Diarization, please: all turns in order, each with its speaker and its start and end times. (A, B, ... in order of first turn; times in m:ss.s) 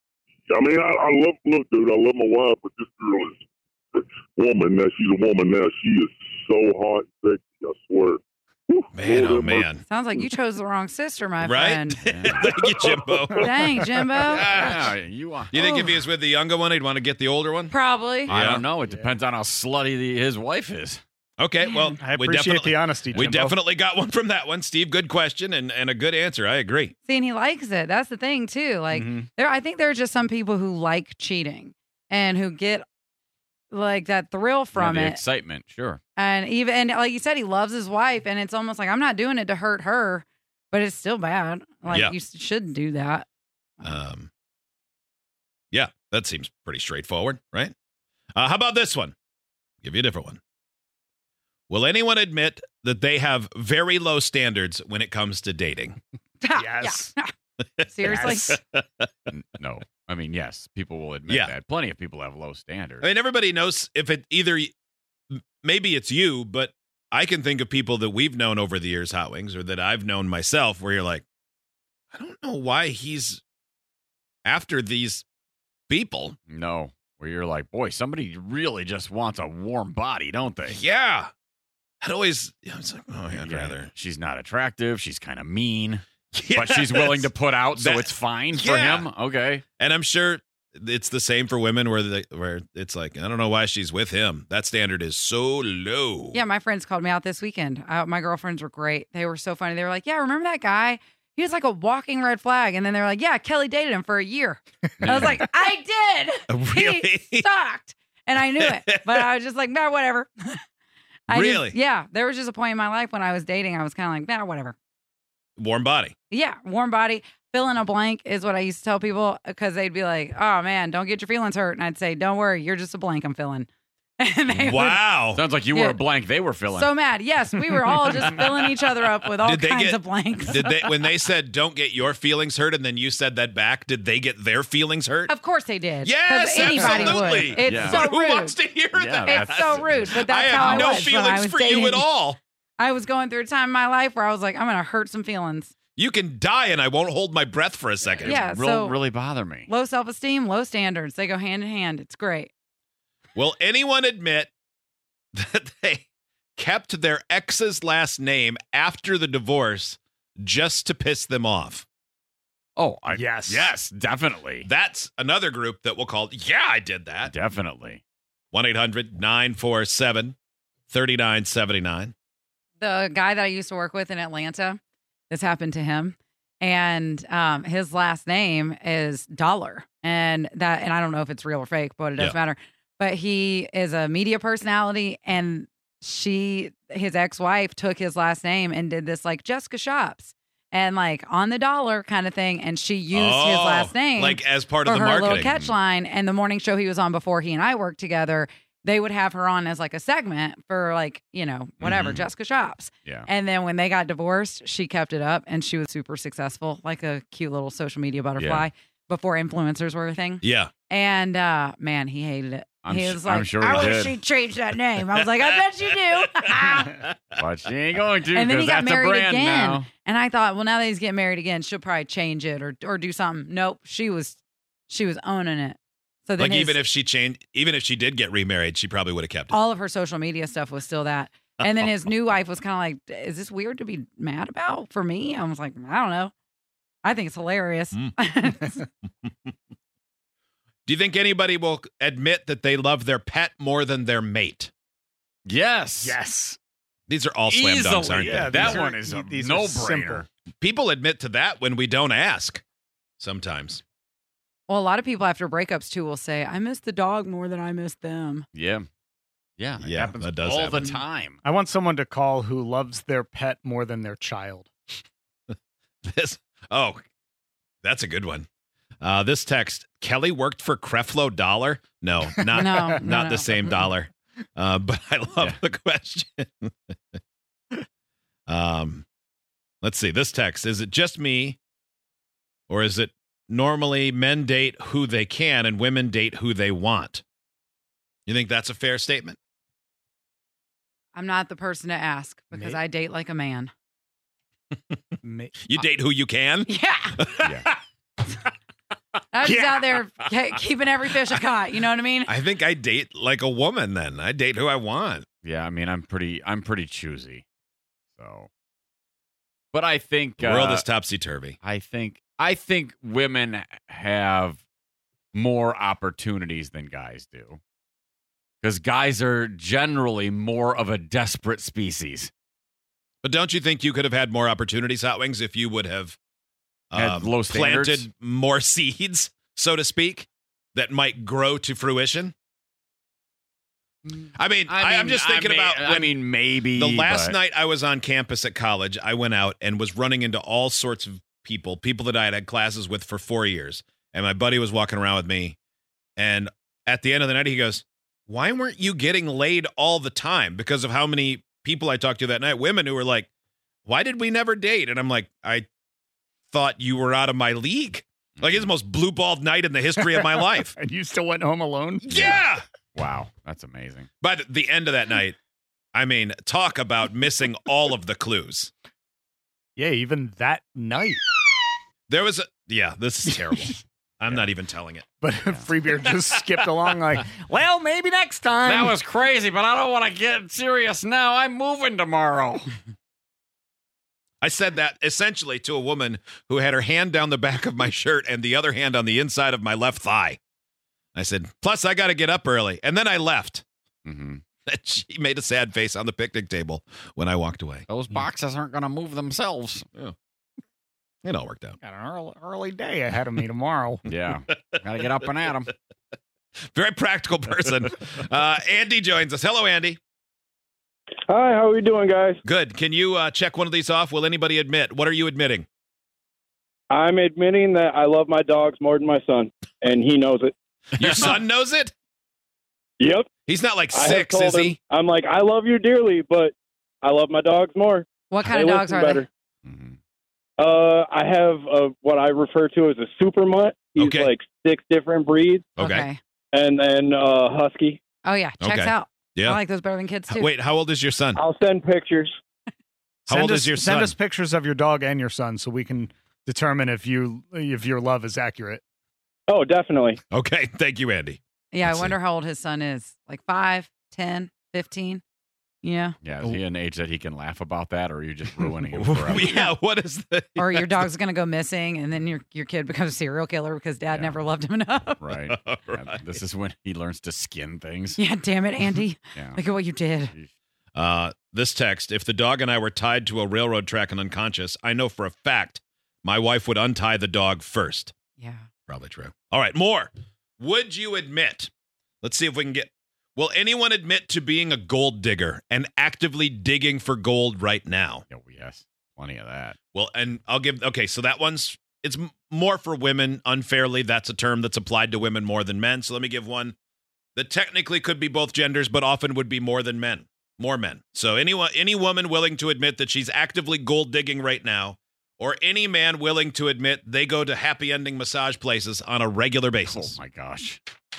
0:00.5-0:10.3 A
0:08.9-0:09.8 B
0:09.8-0:12.1 C
0:11.4-0:15.0 B
0:12.1-0:12.5 D
0:12.5-0:13.6 A
0:13.4-0:14.5 C
0:14.3-0:15.6 D
0:15.5-0:17.8 B
0:15.6-0:16.0 C
0:17.7-0:18.3 C
0:18.3-0:21.0 D
0:18.3-0:18.6 B
0:21.4-0:26.9 B
0:22.0-0:23.6 E
0:23.2-0:23.4 D
0:27.1-0:32.8 C
0:28.9-0:29.3 E
0:33.7-0:35.2 C
0:34.7-0:36.0 D
0:36.2-0:43.3 C
0:41.9-0:42.2 B
0:43.8-0:44.3 B
0:45.7-0:47.7 B
0:48.4-0:49.2 B
0:49.8-0:50.4 B
0:51.7-0:56.0 B
0:56.4-0:57.3 C
0:56.6-0:57.1 E
0:57.8-0:59.1 B
0:57.9-0:58.6 C
0:58.1-0:58.4 E
0:59.3-1:03.1 D
1:01.3-1:01.5 B
1:03.0-1:04.7 B
1:05.3-1:11.2 B
1:12.1-1:13.4 B
1:14.4-1:15.2 B
1:15.9-1:16.4 B
1:16.5-1:20.8 D
1:20.7-1:21.3 B
1:22.0-1:23.9 B
1:23.3-1:29.6 D
1:26.3-1:29.1 B
1:29.8-1:36.4 B
1:36.3-1:50.6 C
1:45.0-1:45.4 D
1:45.1-1:45.4 B
1:46.5-1:47.5 B
1:48.6-1:49.3 B
1:51.3-1:54.8 C
1:51.3-1:51.8 B
1:55.6-1:56.1 B
1:56.3-2:05.2 C
2:04.5-2:05.4 B
2:05.3-2:06.9 D
2:05.7-2:06.0 C
2:06.7-2:10.6 C
2:07.8-2:08.1 D
2:09.4-2:10.0 B
2:10.5-2:15.3 B
2:15.3-2:18.6 C
2:16.0-2:22.4 B
2:16.6-2:18.1 D
2:18.9-2:21.1 D
2:19.2-2:22.1 C
2:22.8-2:25.7 C
2:26.0-2:28.4 B
2:28.1-2:29.7 D
2:28.2-2:29.0 C
2:29.7-2:32.5 C
2:33.4-2:34.5 B
2:35.3-2:41.8 B
2:42.8-2:44.7 D
2:43.1-2:43.7 E
2:44.6-2:47.3 B
2:47.2-2:48.0 D
2:48.5-2:50.4 B
2:50.9-2:52.1 B
2:52.8-3:37.1 C
3:13.1-3:15.5 B
3:15.3-3:15.8 D
3:21.8-3:22.2 B
3:21.9-3:22.2 D
3:28.4-3:28.7 D
3:30.4-3:30.7 B
3:32.8-3:34.2 D
3:36.4-3:37.1 B
3:37.4-3:39.9 D
3:38.3-3:46.8 C
3:46.4-3:49.5 B
3:49.5-3:56.3 C
3:57.0-3:58.9 C
4:00.9-4:04.7 B
4:05.4-4:06.2 D
4:06.0-4:06.6 E
4:07.1-4:08.8 B
4:07.5-4:10.3 D
4:08.2-4:10.3 E
4:10.6-4:12.6 B
4:13.2-4:13.8 B
4:14.7-4:18.4 C
4:18.5-4:18.9 D
4:19.6-4:21.4 D
4:19.8-4:20.9 B
4:21.4-4:24.7 E
4:25.5-4:27.0 B
4:27.8-4:28.5 B
4:29.0-4:36.7 B
4:32.6-4:33.6 C
4:38.5-4:39.1 B
4:39.8-4:41.6 B
4:42.7-4:47.2 B
4:48.3-4:49.4 B
4:51.1-4:53.7 C
4:52.5-4:52.8 E
4:55.2-4:55.6 E
4:55.6-4:57.5 B
4:56.7-4:57.3 C
4:57.4-4:57.7 D
4:59.3-5:02.3 C
4:59.4-4:59.8 E
5:02.3-5:05.3 B
5:05.4-5:07.4 D
5:08.2-5:08.5 D
5:09.7-5:10.8 D
5:10.4-5:11.6 B
5:11.6-5:14.6 D
5:15.3-5:17.6 D
5:18.6-5:22.3 D
5:23.2-5:26.2 B
5:26.9-5:32.3 B
5:26.9-5:28.1 D
5:34.4-5:36.1 B
5:34.7-5:37.4 D
5:36.8-5:45.6 B
5:46.2-5:53.3 B
5:53.8-5:55.7 B
5:56.5-6:00.7 B
5:58.4-5:58.7 D
6:00.0-6:02.5 E
6:02.1-6:02.4 D
6:02.1-6:02.6 B
6:02.9-6:04.1 D
6:04.2-6:05.4 B
6:05.9-6:08.7 B
6:09.8-6:11.2 E
6:12.1-6:15.1 B
6:15.2-6:18.9 E
6:18.6-6:22.7 D
6:24.4-6:30.4 B
6:31.2-6:33.6 B
6:34.0-6:34.4 D
6:34.7-6:37.9 B
6:37.9-6:39.9 D
6:41.2-6:41.8 B
6:41.8-6:44.1 E
6:44.1-6:45.7 D
6:46.7-6:50.0 B
6:51.3-6:52.4 F
6:52.4-6:55.7 B
6:56.9-7:00.5 F
7:01.0-7:01.9 B
7:03.0-7:03.3 F
7:03.5-7:04.8 B
7:03.9-7:09.3 F
7:08.3-7:09.3 C
7:09.6-7:10.0 D
7:10.6-7:15.8 F
7:14.0-7:14.3 B
7:15.8-7:16.1 B
7:15.8-7:16.2 C
7:16.5-7:18.0 F
7:18.2-7:20.5 C
7:18.6-7:19.6 B
7:20.3-7:21.4 B
7:21.3-7:22.3 F
7:23.3-7:24.1 B
7:23.3-7:28.8 E
7:29.5-7:30.2 F
7:30.3-7:32.2 B
7:31.7-7:35.2 C
7:35.8-7:36.2 C
7:36.2-7:39.6 D
7:39.0-7:41.0 B
7:39.4-7:39.7 C
7:40.6-7:45.2 C
7:44.1-7:44.4 D
7:45.2-7:48.2 D
7:45.5-7:46.2 B
7:48.2-7:50.3 C
7:49.3-7:49.6 D
7:50.9-7:58.1 B
7:58.4-7:58.7 C
7:58.9-8:01.7 B
8:02.2-8:08.3 B
8:08.3-8:09.8 D
8:09.9-8:16.8 B
8:17.4-8:30.2 B
8:29.8-8:30.8 D